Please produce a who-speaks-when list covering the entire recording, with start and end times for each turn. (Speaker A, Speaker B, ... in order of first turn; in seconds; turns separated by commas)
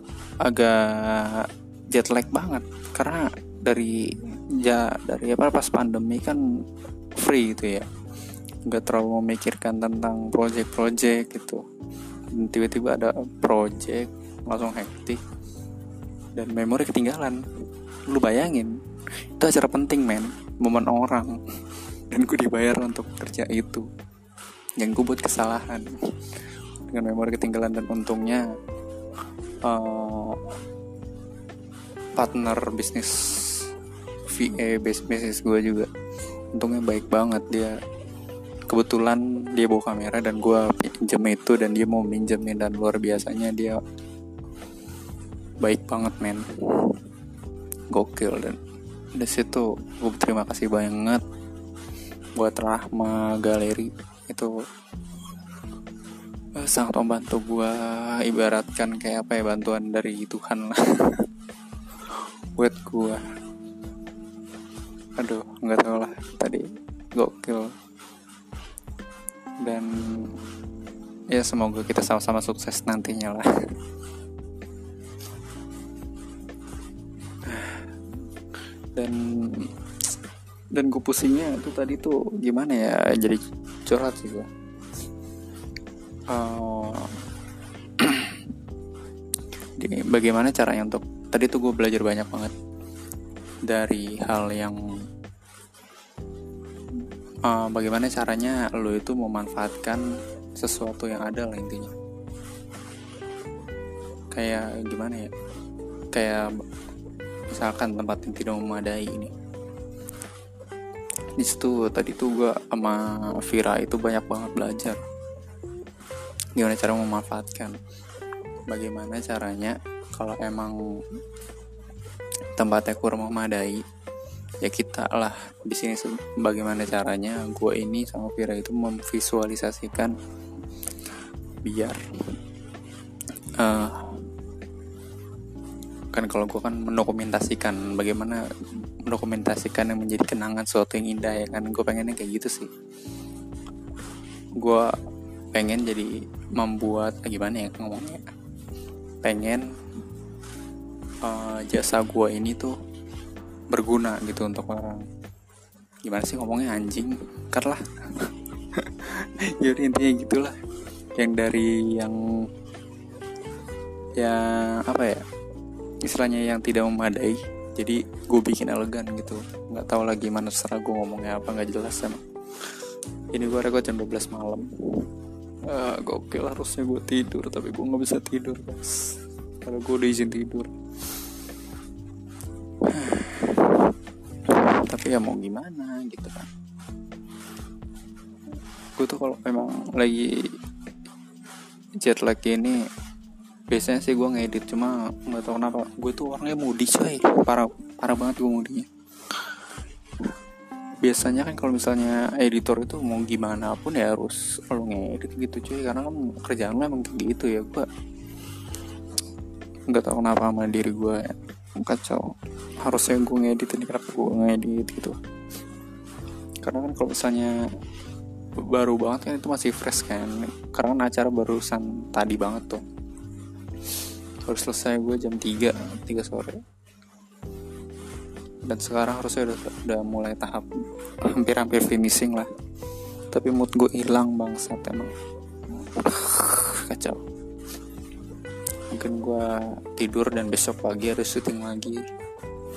Speaker A: 0.4-6.4, Speaker A: 7.2-7.9, Speaker A: 8.7-11.6, Speaker A: 12.3-15.2, Speaker A: 16.3-17.4, Speaker A: 18.1-18.7, Speaker A: 19.3-23.9, Speaker A: 24.8-28.4, Speaker A: 29.6-30.5, Speaker A: 32.1-33.7, Speaker A: 34.3-35.9, Speaker A: 36.5-37.8, Speaker A: 38.7-43.8, Speaker A: 45.6-47.0, Speaker A: 47.9-48.6, Speaker A: 49.1-51.2, Speaker A: 52.4-54.5, Speaker A: 56.5-61.3, Speaker A: 62.1-63.2, Speaker A: 65.2-67.7, Speaker A: 69.6-70.4, Speaker A: 71.3-73.7, Speaker A: 77.4-78.0, Speaker A: 78.9-79.7, Speaker A: 80.7-84.5, Speaker A: 86.3-87.2, Speaker A: 88.0-88.5, Speaker A: 89.8-92.5, Speaker A: 93.7-94.8, Speaker A: 97.5-100.0, Speaker A: 100.6-101.9, Speaker A: 104.3-105.3, Speaker A: 106.1-106.5, Speaker A: 107.5-109.3, Speaker A: 111.4-115.0, Speaker A: 116.5-117.8, Speaker A: 118.7-120.8, Speaker A: 122.5-123.8, Speaker A: 124.6-130.2, Speaker A: 131.6-132.0, Speaker A: 133.6-134.2, Speaker A: 136.1-138.4, Speaker A: 139.0-142.7, Speaker A: 144.6-144.9, Speaker A: 145.5-148.3, Speaker A: 149.2-149.7, Speaker A: 151.2-152.8, Speaker A: 153.7-155.0, Speaker A: 156.0-160.6, Speaker A: 161.2-162.2, Speaker A: 164.2-165.2, Speaker A: 166.0-172.2, Speaker A: 173.3-175.1, Speaker A: 175.7-180.7, Speaker A: 182.8-186.5, Speaker A: 189.0-190.6, Speaker A: 192.0-192.8, Speaker A: 193.7-199.6, Speaker A: 201.0-207.9, Speaker A: 209.9-212.3, Speaker A: 212.8-215.2, Speaker A: 216.6-217.6, Speaker A: 218.6-222.8, Speaker A: 223.9-226.6, Speaker A: 228.6-232.5, Speaker A: 233.3-235.1, Speaker A: 235.7-237.2, Speaker A: 238.9-242.0